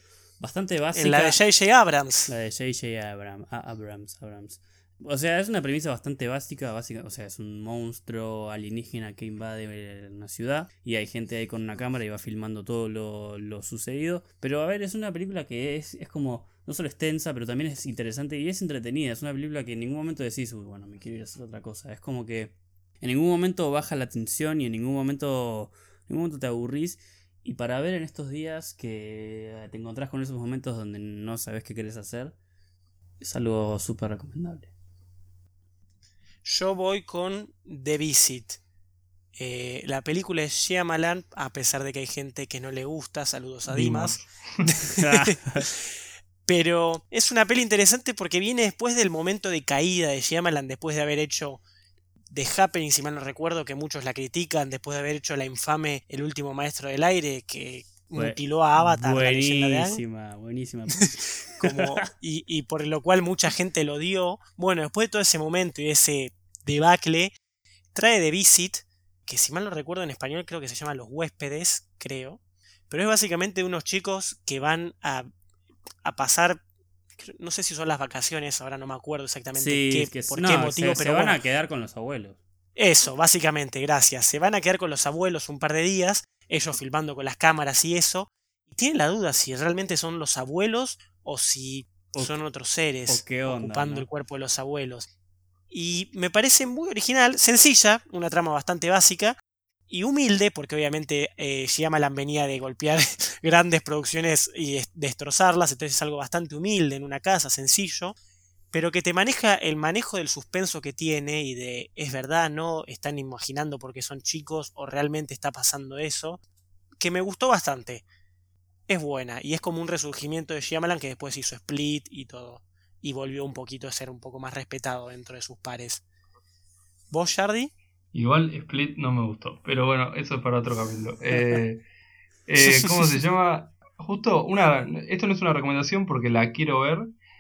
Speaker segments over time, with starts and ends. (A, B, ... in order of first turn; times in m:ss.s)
0:00.4-0:01.4 A
0:00.9-0:02.3 B
0:02.3-0:32.4 A
0:33.2-0:34.7 A
0:36.4-0:38.6 B
0:39.3-0:51.6 B
0:43.7-0:44.7 C
0:45.0-0:45.6 A
0:52.3-1:00.0 B
0:58.1-1:02.0 A
1:01.0-1:07.3 B
1:07.9-1:15.3 B
1:16.0-1:16.6 B
1:17.2-1:21.4 B
1:19.6-1:22.4 A
1:22.8-1:35.1 B
1:33.1-1:34.1 A
1:35.7-1:39.4 B
1:39.9-1:48.2 B
1:48.7-1:56.4 B
1:57.0-1:58.0 B
1:58.9-2:06.0 B
2:07.1-2:07.7 B
2:08.1-2:11.8 C
2:12.5-2:17.1 C
2:12.6-2:13.2 B